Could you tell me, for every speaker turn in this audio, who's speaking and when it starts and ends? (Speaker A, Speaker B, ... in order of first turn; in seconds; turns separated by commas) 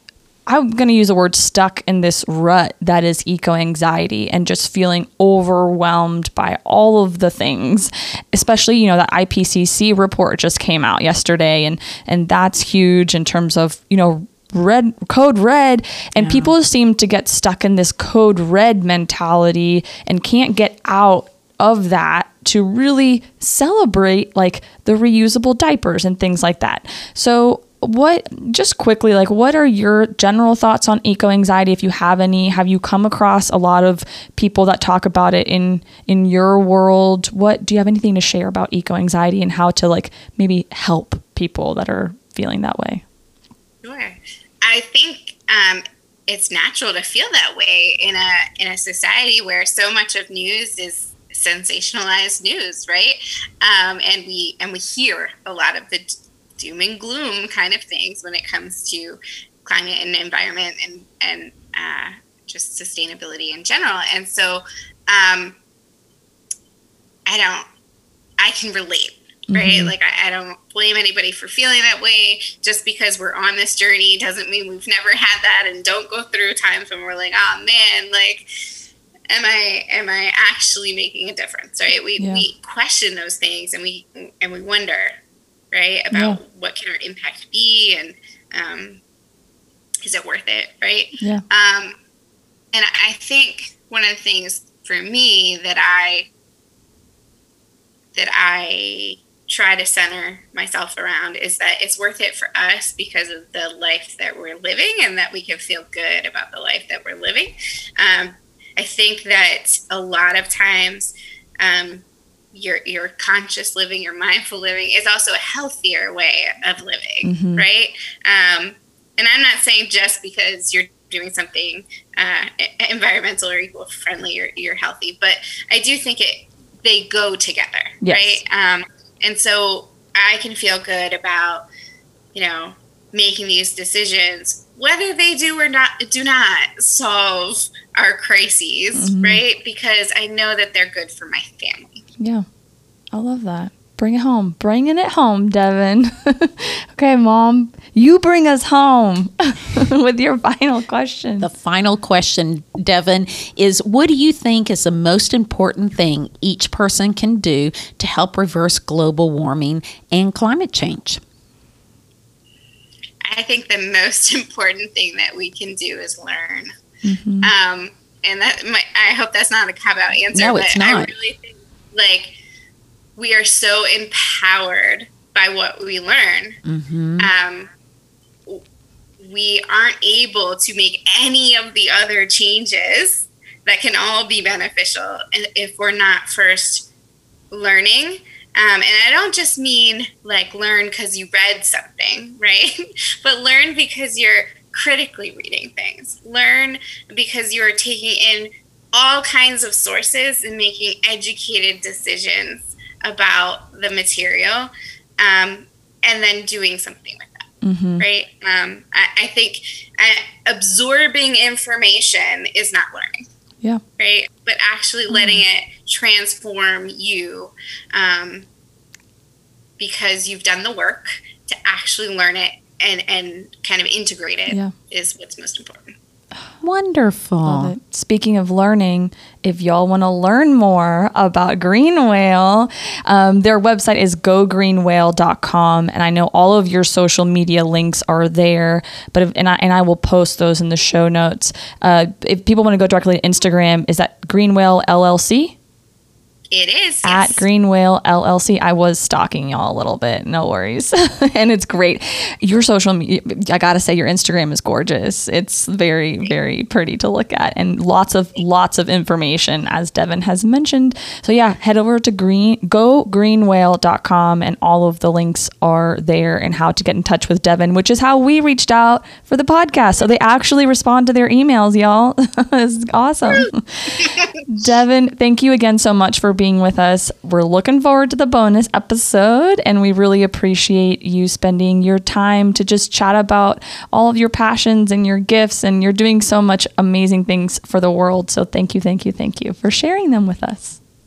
Speaker A: 0.5-43.0, Speaker B: 16.1-16.5, Speaker C: 43.8-65.6, Speaker C: 67.2-67.7, Speaker C: 68.4-78.4, Speaker A: 69.5-69.9, Speaker C: 79.3-85.1, Speaker A: 82.2-82.5, Speaker C: 85.7-89.0, Speaker A: 86.1-86.4, Speaker C: 90.0-92.0, Speaker A: 91.2-91.4, Speaker C: 92.7-96.3, Speaker C: 98.1-131.7, Speaker A: 117.2-117.6, Speaker A: 128.0-128.4, Speaker C: 132.3-142.0, Speaker A: 138.9-139.4, Speaker A: 142.2-142.4, Speaker A: 143.1-151.5, Speaker B: 151.4-161.2, Speaker C: 163.2-166.7, Speaker A: 167.0-167.5, Speaker C: 167.4-172.3, Speaker B: 170.3-171.1, Speaker C: 173.2-176.6, Speaker B: 176.7-177.3, Speaker C: 177.2-177.7, Speaker C: 179.2-186.8, Speaker C: 187.5-207.5, Speaker A: 207.6-208.0, Speaker C: 208.0-213.2, Speaker C: 214.0-218.5, Speaker A: 215.1-215.4, Speaker C: 219.8-225.9, Speaker B: 226.6-227.7, Speaker A: 227.4-245.6, Speaker C: 246.5-247.4, Speaker A: 247.0-290.8, Speaker C: 274.0-274.4